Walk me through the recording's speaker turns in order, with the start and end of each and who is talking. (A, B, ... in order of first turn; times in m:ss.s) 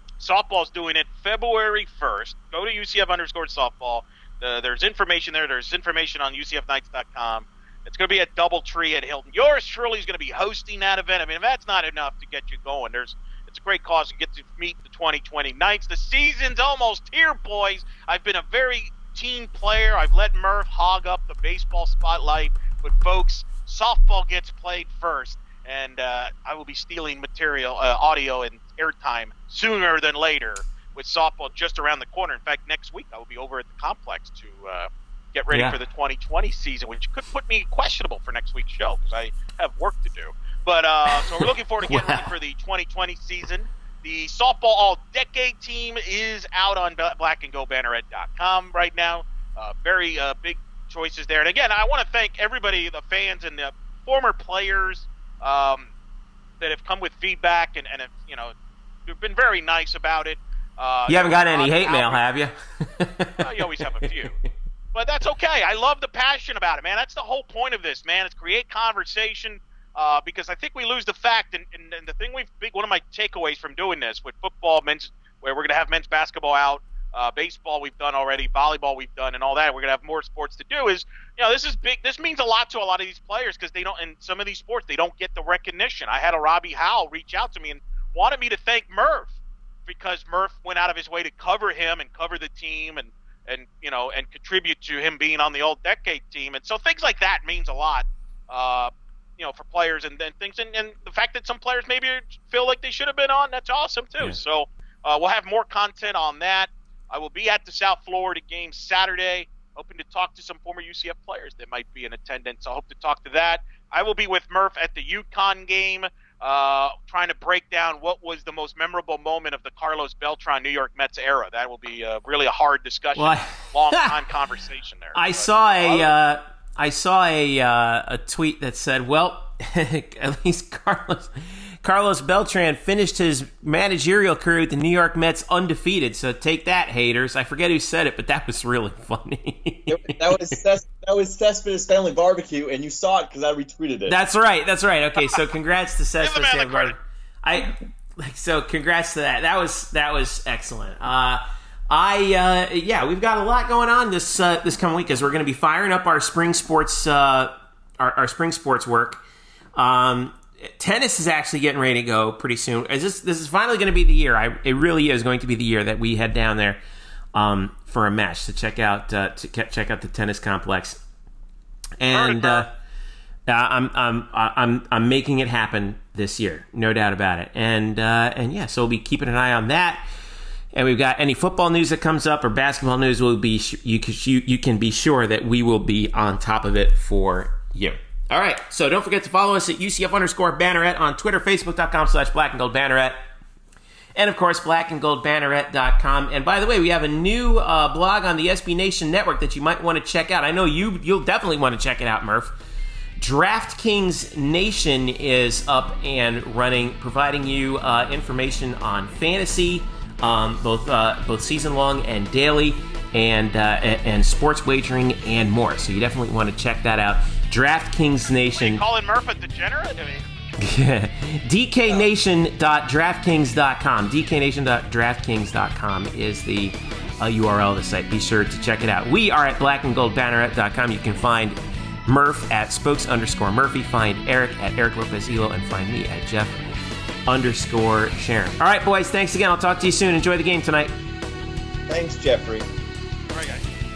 0:00.2-0:55.9 A
0:35.5-0:35.8 B
0:41.1-0:42.3 B
0:56.6-0:58.5 A
0:59.1-1:02.2 A
1:01.1-1:04.5 B
1:03.4-1:04.3 A
1:04.9-1:29.4 A
1:29.9-2:06.1 A
2:03.2-2:04.2 B
2:05.2-2:20.6 B
2:19.9-2:24.2 C
2:24.1-2:39.2 B
2:26.2-2:27.0 A
2:39.8-2:46.8 B
2:47.4-2:51.0 B
2:52.0-2:52.7 B
2:52.1-2:52.7 A
2:53.5-3:00.0 B
3:00.7-3:13.2 B
3:14.2-3:22.6 B
3:23.2-3:38.8 B
3:38.6-3:40.2 A
3:40.6-3:56.6 B
3:57.3-4:00.9 B
4:01.9-4:02.7 C
4:03.3-4:03.6 A